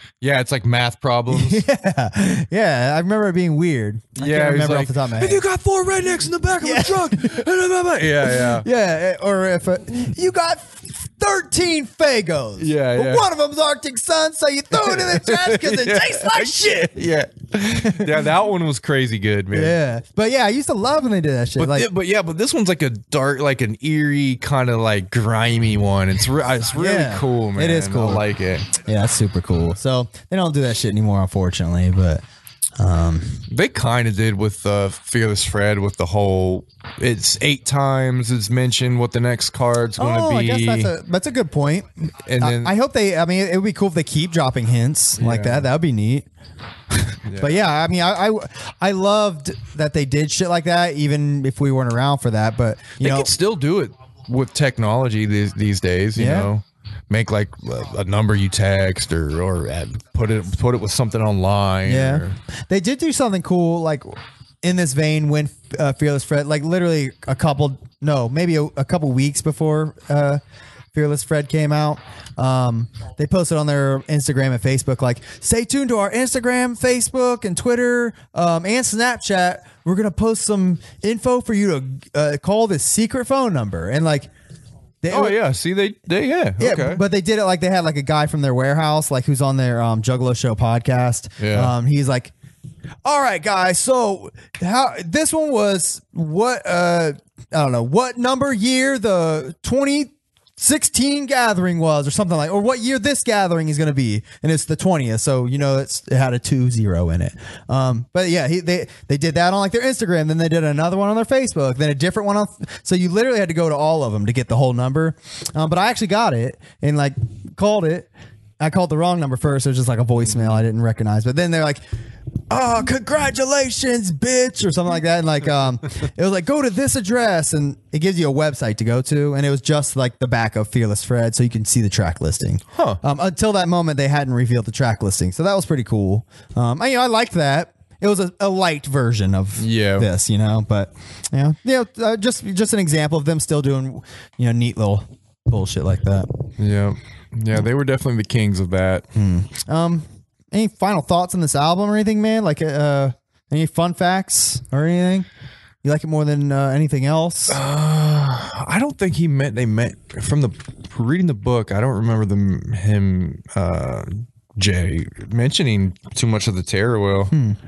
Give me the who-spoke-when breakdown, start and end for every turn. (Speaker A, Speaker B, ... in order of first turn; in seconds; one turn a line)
Speaker A: 0.2-1.6
Speaker B: 1.3-5.4
Speaker A: 4.2-8.7
Speaker B: 6.6-7.4
Speaker B: 8.2-16.9
Speaker A: 12.6-13.3
Speaker A: 14.7-19.8
Speaker B: 17.7-18.2
Speaker B: 19.5-21.9
Speaker A: 21.6-28.7
Speaker B: 26.8-28.2
Speaker B: 28.9-32.2
Speaker B: 32.8-33.5
Speaker A: 33.5-40.9
Speaker B: 40.0-46.3
Speaker A: 42.3-42.7
Speaker A: 45.2-45.7
Speaker B: 46.9-53.3
Speaker A: 47.2-47.6
Speaker A: 53.0-62.4
Speaker B: 56.2-56.5
Speaker B: 61.9-70.4
Speaker B: 70.9-84.3
Speaker B: 85.0-85.4
Speaker A: 85.1-87.0
Speaker B: 86.6-92.3
Speaker A: 91.4-91.7
Speaker B: 93.0-118.1
Speaker B: 118.6-121.8
Speaker A: 120.2-120.6
Speaker B: 122.5-146.3
Speaker A: 132.7-133.0
Speaker A: 139.6-140.1
Speaker A: 146.6-149.1
Speaker B: 149.2-155.3
Speaker B: 155.8-157.6
Speaker A: 157.5-167.3
Speaker B: 167.3-167.6